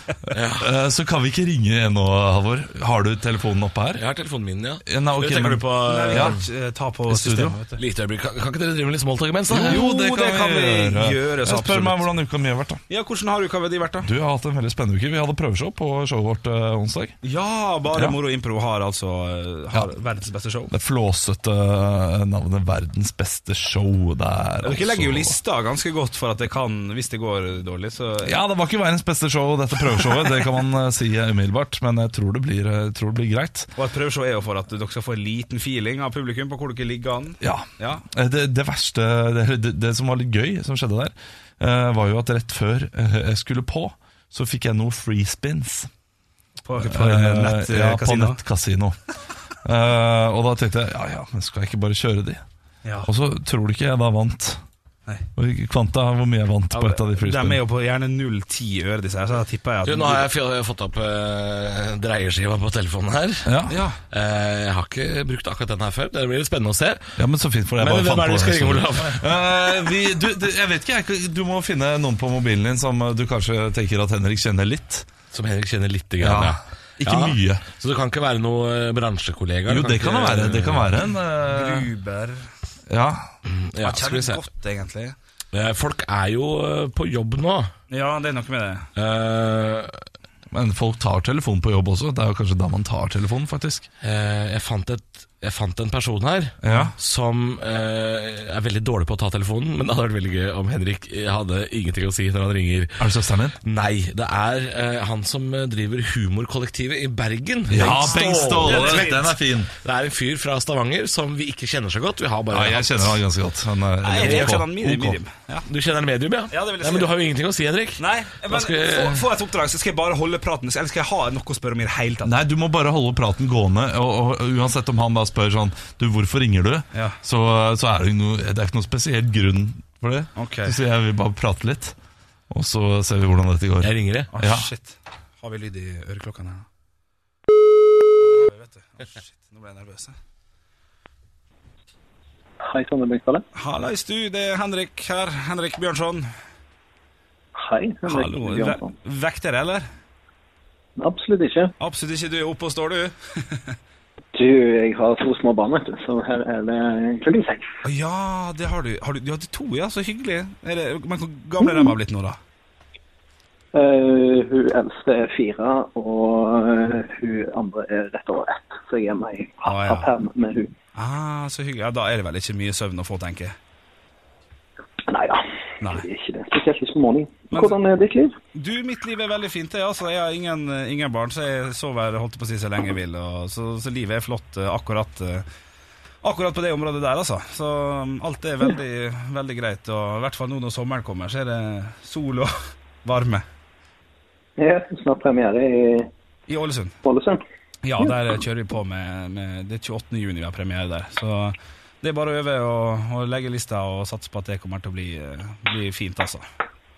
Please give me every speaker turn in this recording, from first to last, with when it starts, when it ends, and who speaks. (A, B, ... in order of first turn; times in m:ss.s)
0:00.3-0:00.7 A
0:00.6-0:04.0 B
0:04.0-0:06.4 A
0:04.9-0:06.4 B
0:05.8-0:07.8 C
0:07.1-0:07.6 B
0:07.8-0:09.8 A
0:09.5-0:12.8 B
0:09.5-0:12.1 C
0:12.9-0:14.1 C
0:14.0-0:17.2 B
0:17.2-0:20.7 C
0:17.9-0:18.2 B
0:20.7-0:25.4 B
0:24.6-0:28.4 C
0:28.2-0:33.7 B
0:33.8-0:38.0 C
0:37.4-0:45.9 B
0:46.7-0:48.4 C
0:46.8-0:49.0 B
0:49.6-0:52.4 B
0:52.8-0:53.1 C
0:53.0-0:54.6 B
0:55.4-0:57.6 B
0:56.7-1:00.3 C
0:59.8-1:03.5 A
1:03.4-1:03.8 B
1:03.7-1:04.0 C
1:04.1-1:07.2 A
1:07.2-1:15.1 B
1:07.8-1:09.2 A
1:15.3-1:20.9 A
1:16.2-1:17.6 B
1:19.7-1:21.9 B
1:21.5-1:22.5 C
1:22.9-1:23.3 B
1:23.5-1:24.4 A
1:23.8-1:25.2 C
1:25.5-1:27.7 A
1:27.9-1:28.9 C
1:29.0-1:30.0 A
1:30.5-1:33.9 B
1:34.0-1:43.0 A
1:36.6-1:36.9 B
1:43.0-1:43.6 B
1:43.6-1:49.1 A
1:47.7-1:49.7 B
1:47.8-1:49.4 C
1:49.8-1:53.2 A
1:52.5-1:55.2 B
1:54.0-1:55.7 C
1:54.2-1:54.6 A
1:55.7-1:59.3 A
1:56.5-1:57.1 C
1:58.0-2:02.4 C
2:02.2-2:12.0 B
2:06.9-2:07.2 C
2:10.4-2:10.8 C
2:12.5-2:14.7 B
2:13.8-2:14.3 A
2:14.3-2:16.7 C
2:18.2-2:20.2 C
2:22.6-2:23.4 D
2:23.6-2:26.3 C
2:27.6-2:28.9 D
2:28.0-2:29.9 C
2:31.0-2:31.7 D
2:31.8-2:33.8 C
2:34.4-2:37.7 D
2:37.8-2:42.4 C
2:41.6-2:42.0 D
2:43.7-2:50.7 D
2:49.7-2:50.1 C
2:51.0-2:53.6 C
2:55.1-2:58.4 D
2:55.8-2:56.1 C
2:57.5-2:57.8 C
2:58.6-3:05.5 C
3:06.2-3:13.4 C
3:14.6-3:16.1 D
3:16.5-3:17.0 C
3:17.0-3:17.4 D
3:17.8-3:26.4 C